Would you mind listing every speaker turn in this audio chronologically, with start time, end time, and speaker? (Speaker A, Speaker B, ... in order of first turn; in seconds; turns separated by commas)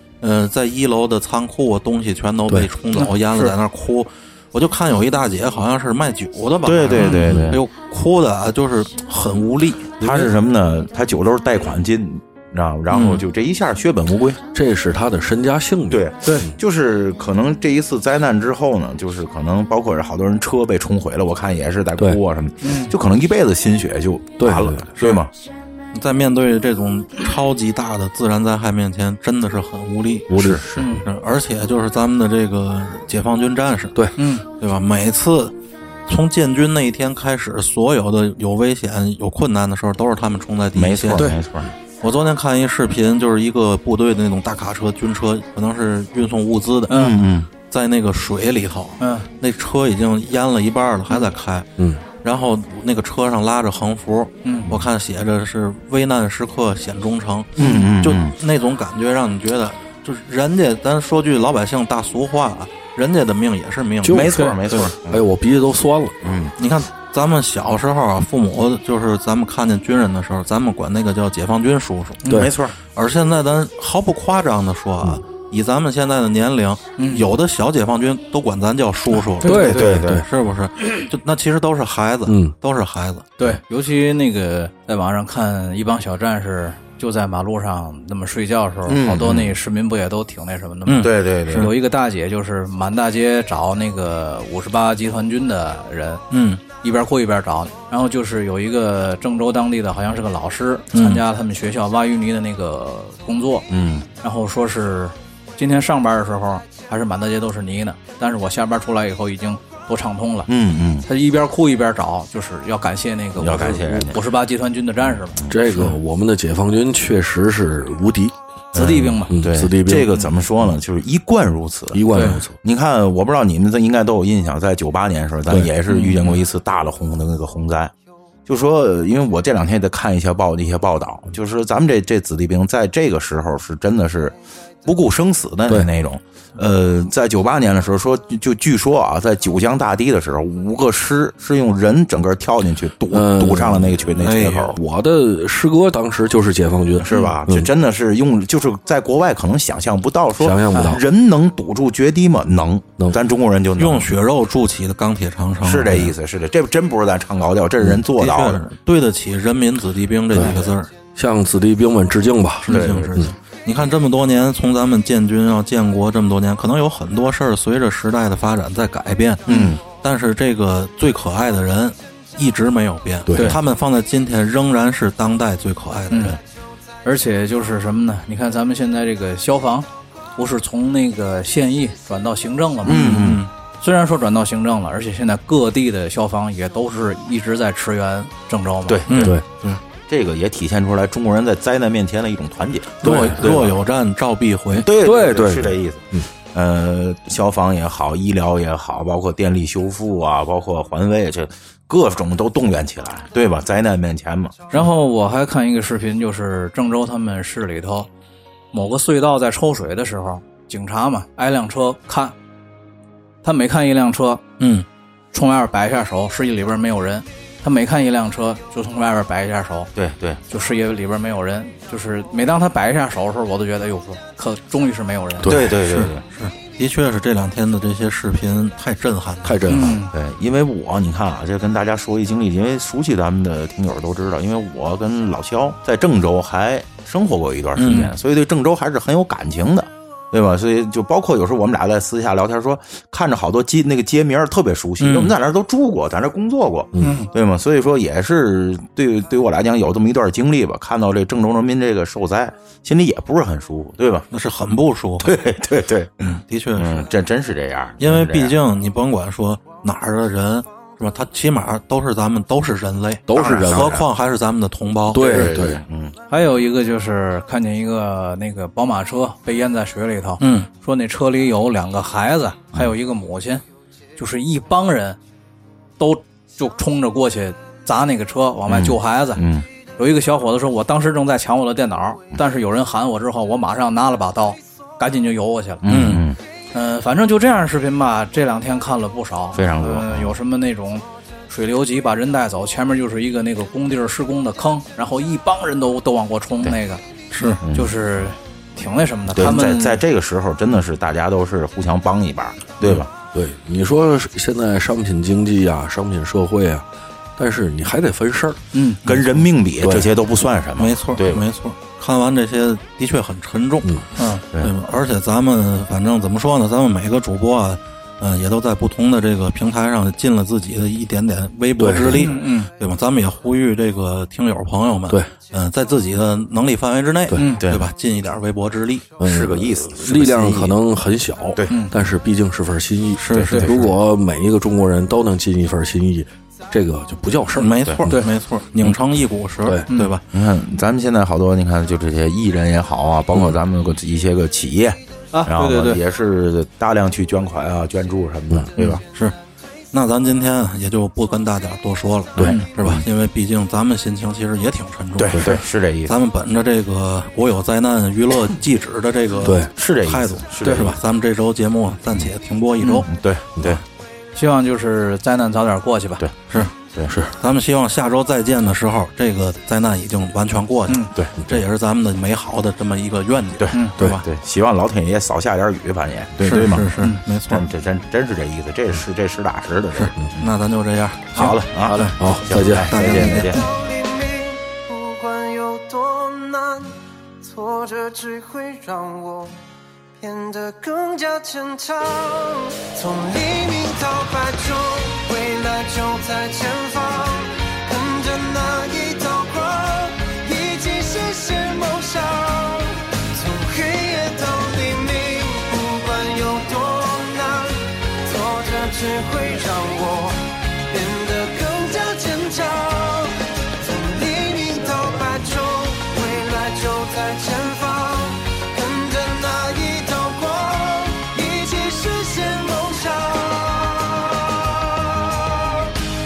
Speaker A: 0.2-10.3, Speaker B: 2.9-3.5, Speaker C: 6.6-7.6, Speaker B: 7.0-7.2, Speaker D: 7.2-7.6, Speaker C: 10.0-14.4, Speaker A: 12.9-13.2, Speaker D: 14.5-16.5, Speaker C: 15.9-25.3, Speaker B: 22.6-22.9, Speaker D: 24.4-25.0, Speaker A: 25.0-25.3, Speaker A: 25.9-35.5, Speaker C: 30.3-30.9, Speaker D: 30.3-30.6, Speaker B: 30.8-31.1, Speaker B: 34.2-34.4, Speaker A: 36.0-41.3, Speaker C: 40.7-41.7, Speaker A: 42.0-51.7, Speaker B: 46.9-47.2, Speaker C: 46.9-47.5, Speaker B: 49.0-49.3, Speaker D: 51.8-52.0, Speaker A: 52.2-64.9, Speaker B: 54.4-54.7, Speaker C: 57.6-58.3, Speaker B: 57.6-57.9, Speaker D: 64.0-64.3, Speaker C: 64.2-65.3, Speaker B: 64.2-64.6, Speaker D: 65.1-66.3, Speaker C: 66.2-66.5, Speaker A: 66.6-83.3, Speaker D: 72.2-72.5, Speaker C: 72.3-72.8, Speaker B: 77.0-77.3, Speaker D: 79.4-80.2, Speaker B: 79.4-80.0, Speaker C: 79.7-80.2, Speaker D: 82.2-82.5, Speaker B: 83.4-96.2, Speaker C: 88.9-89.5, Speaker A: 90.8-91.7, Speaker C: 91.0-91.7, Speaker A: 96.3-96.6, Speaker B: 96.8-103.7, Speaker A: 100.9-101.2, Speaker C: 103.7-104.0, Speaker B: 104.2-110.5, Speaker C: 110.5-111.1, Speaker B: 111.0-115.4, Speaker C: 113.3-114.2, Speaker D: 115.5-118.3, Speaker C: 118.7-127.9, Speaker B: 118.7-119.3, Speaker D: 119.3-120.1, Speaker D: 121.9-122.5, Speaker B: 122.1-122.4, Speaker B: 125.9-126.3, Speaker C: 128.4-144.8, Speaker D: 143.1-144.1, Speaker A: 144.2-144.7, Speaker D: 144.7-147.7, Speaker C: 147.0-154.1, Speaker D: 150.4-151.0, Speaker A: 153.8-156.1, Speaker C: 155.6-158.6, Speaker D: 157.8-158.0, Speaker A: 158.1-160.9, Speaker D: 160.3-160.6, Speaker D: 161.1-163.3, Speaker A: 162.7-176.4, Speaker C: 162.7-163.2, Speaker C: 169.5-169.8, Speaker B: 169.5-169.7, Speaker D: 173.3-173.6, Speaker B: 173.3-173.6, Speaker B: 176.1-176.4, Speaker B: 177.0-183.2, Speaker C: 182.8-183.4, Speaker A: 182.8-183.5, Speaker B: 183.8-189.2, Speaker C: 188.9-189.4, Speaker A: 189.1-189.8, Speaker C: 190.1-193.8, Speaker A: 193.0-194.9, Speaker D: 193.0-193.5, Speaker C: 194.7-204.6, Speaker D: 195.0-196.3, Speaker B: 204.7-208.1, Speaker B: 208.7-212.3, Speaker B: 213.4-214.4, Speaker A: 214.6-214.8, Speaker B: 215.3-219.9, Speaker C: 219.9-220.4, Speaker B: 220.5-225.5, Speaker A: 225.4-229.6, Speaker C: 225.5-226.2, Speaker D: 229.4-230.0, Speaker B: 229.7-230.1, Speaker C: 230.1-254.3, Speaker A: 237.7-238.1, Speaker A: 245.0-245.3, Speaker B: 247.0-247.3, Speaker A: 254.3-255.4, Speaker C: 255.2-258.6, Speaker A: 256.2-257.1, Speaker A: 258.0-265.5, Speaker D: 263.3-263.9, Speaker C: 263.3-264.1, Speaker D: 265.1-265.8, Speaker C: 265.2-266.2, Speaker B: 266.3-273.6, Speaker A: 270.4-270.7, Speaker B: 274.1-275.2, Speaker B: 276.0-279.4, Speaker C: 278.7-279.7, Speaker B: 279.9-285.8, Speaker C: 285.8-286.4, Speaker A: 285.9-286.2, Speaker B: 286.7-300.0, Speaker C: 289.5-290.4, Speaker A: 297.3-297.6, Speaker C: 297.6-297.9, Speaker C: 299.3-303.1, Speaker D: 303.3-308.6, Speaker B: 308.7-309.0, Speaker A: 309.0-309.4, Speaker C: 309.0-311.4, Speaker D: 309.8-310.1, Speaker A: 310.8-329.1, Speaker B: 314.1-314.4, Speaker D: 321.8-322.3, Speaker B: 322.1-322.7, Speaker B: 327.3-327.6, Speaker C: 327.6-327.9, Speaker D: 329.2-339.0, Speaker C: 329.2-330.8, Speaker B: 331.7-331.9, Speaker A: 333.2-333.9, Speaker C: 333.3-333.9, Speaker A: 337.6-340.2, Speaker C: 337.8-338.1, Speaker D: 339.6-339.9, Speaker B: 339.9-340.1, Speaker C: 340.3-349.0, Speaker B: 345.3-346.0, Speaker A: 348.8-349.3, Speaker A: 349.9-363.1, Speaker D: 352.4-353.0, Speaker C: 352.4-352.6, Speaker C: 355.2-356.1, Speaker D: 359.4-359.7, Speaker C: 359.7-361.0, Speaker C: 363.0-363.8, Speaker B: 364.3-366.2, Speaker C: 366.2-367.2, Speaker A: 366.5-366.7, Speaker D: 367.1-367.3, Speaker A: 367.3-374.2, Speaker C: 371.1-371.4, Speaker C: 373.6-380.5, Speaker A: 376.4-377.6, Speaker A: 379.9-383.6, Speaker C: 381.3-383.6, Speaker D: 382.2-382.9, Speaker E: 383.0-389.6, Speaker E: 390.2-426.1